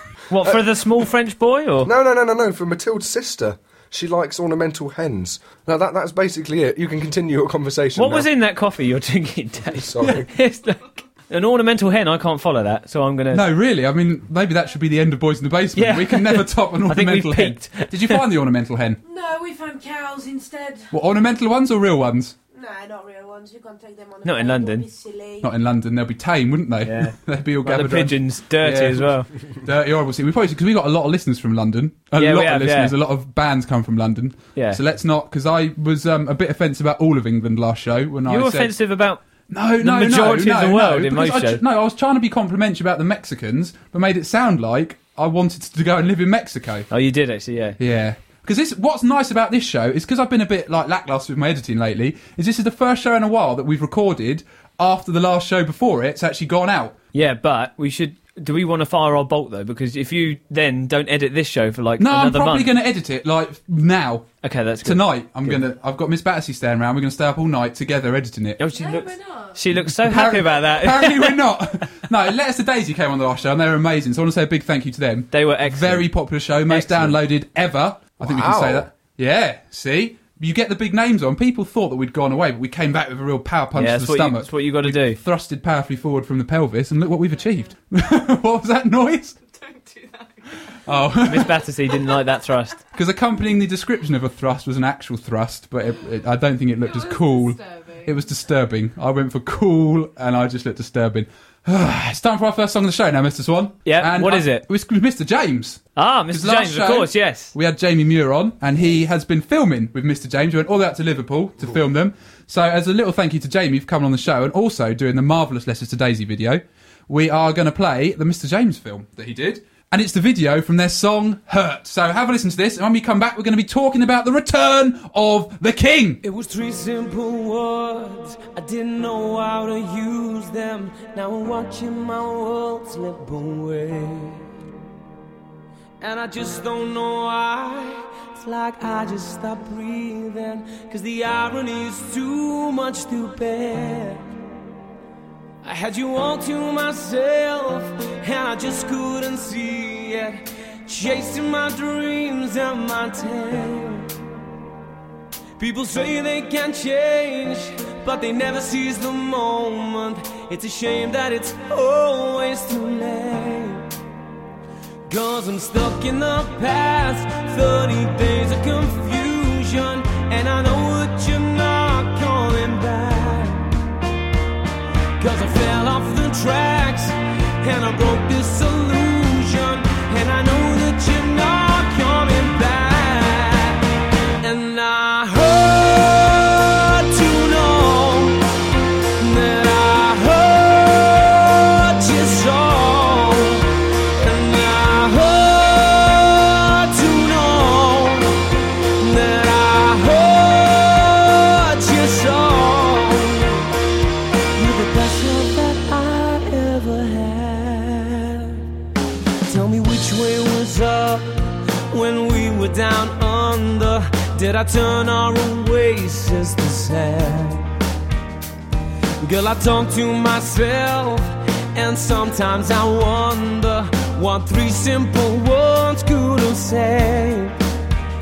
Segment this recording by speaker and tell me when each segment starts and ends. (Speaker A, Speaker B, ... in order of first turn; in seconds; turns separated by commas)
Speaker A: 0.3-1.9, Speaker B: 1.8-8.2, Speaker A: 8.0-13.4, Speaker B: 9.8-10.3, Speaker C: 13.3-19.0, Speaker A: 15.8-18.2, Speaker D: 19.1-20.9, Speaker C: 20.9-22.4, Speaker D: 22.6-25.4, Speaker A: 24.2-24.9, Speaker C: 25.4-38.7, Speaker A: 26.8-29.3, Speaker A: 32.2-32.9, Speaker A: 38.3-39.2, Speaker C: 39.5-46.9, Speaker A: 39.8-41.6, Speaker A: 46.9-47.8, Speaker C: 47.8-57.0, Speaker A: 57.1-62.7, Speaker C: 62.0-64.3, Speaker A: 64.4-65.6, Speaker C: 64.8-68.6, Speaker A: 68.6-71.6, Speaker E: 68.7-69.6, Speaker C: 69.7-89.3, Speaker A: 75.3-76.1, Speaker A: 76.7-77.2, Speaker B: 78.2-78.9, Speaker A: 83.8-85.2, Speaker E: 89.5-90.8, Speaker C: 90.8-91.6, Speaker A: 91.2-92.8, Speaker C: 92.9-126.2, Speaker E: 96.8-98.1, Speaker A: 103.8-104.6, Speaker A: 106.0-107.5, Speaker D: 126.2-134.4, Speaker D: 136.0-144.2, Speaker D: 145.6-154.1, Speaker D: 155.6-163.8, Speaker D: 165.1-173.7, Speaker D: 175.2-183.8, Speaker D: 184.4-188.4, Speaker D: 189.2-198.5, Speaker D: 199.0-203.7, Speaker D: 204.5-208.7, Speaker D: 209.4-217.7, Speaker D: 219.2-227.5